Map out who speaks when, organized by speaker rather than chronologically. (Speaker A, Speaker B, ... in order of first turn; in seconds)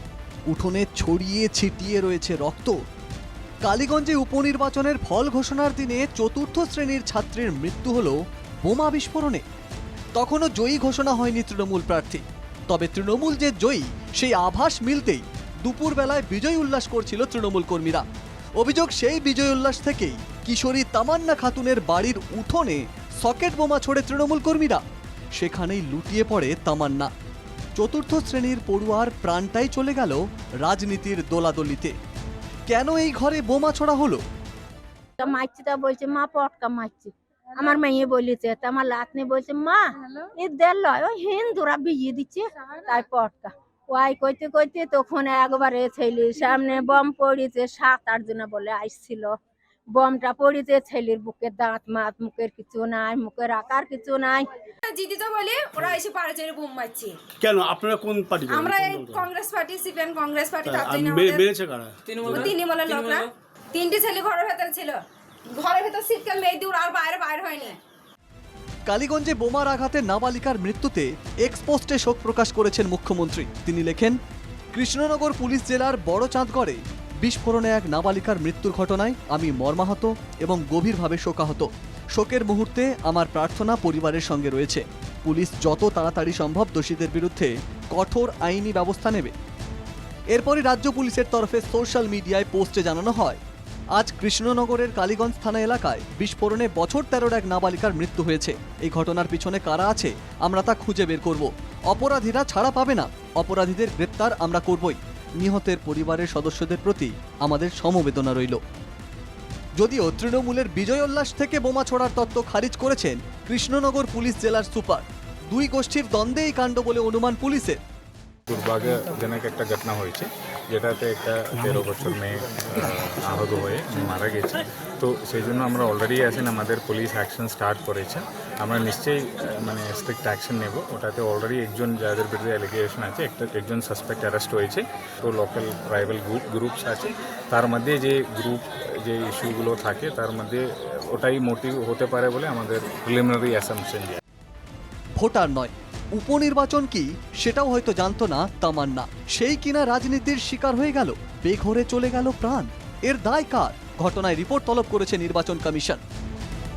Speaker A: 0.5-2.8, 3.6-9.4, 10.1-18.0, 18.6-24.8, 25.4-27.1, 27.8-31.9, 32.7-34.2, 68.9-74.2, 74.7-89.3, 90.3-93.4, 93.9-108.6, 109.8-117.8, 145.2-156.0
Speaker B: 35.2-49.4, 49.9-54.5
Speaker C: 54.9-57.2, 58.5-61.5, 62.2-67.8
Speaker D: 57.4-59.2, 60.7-62.5
Speaker E: 118.5-144.2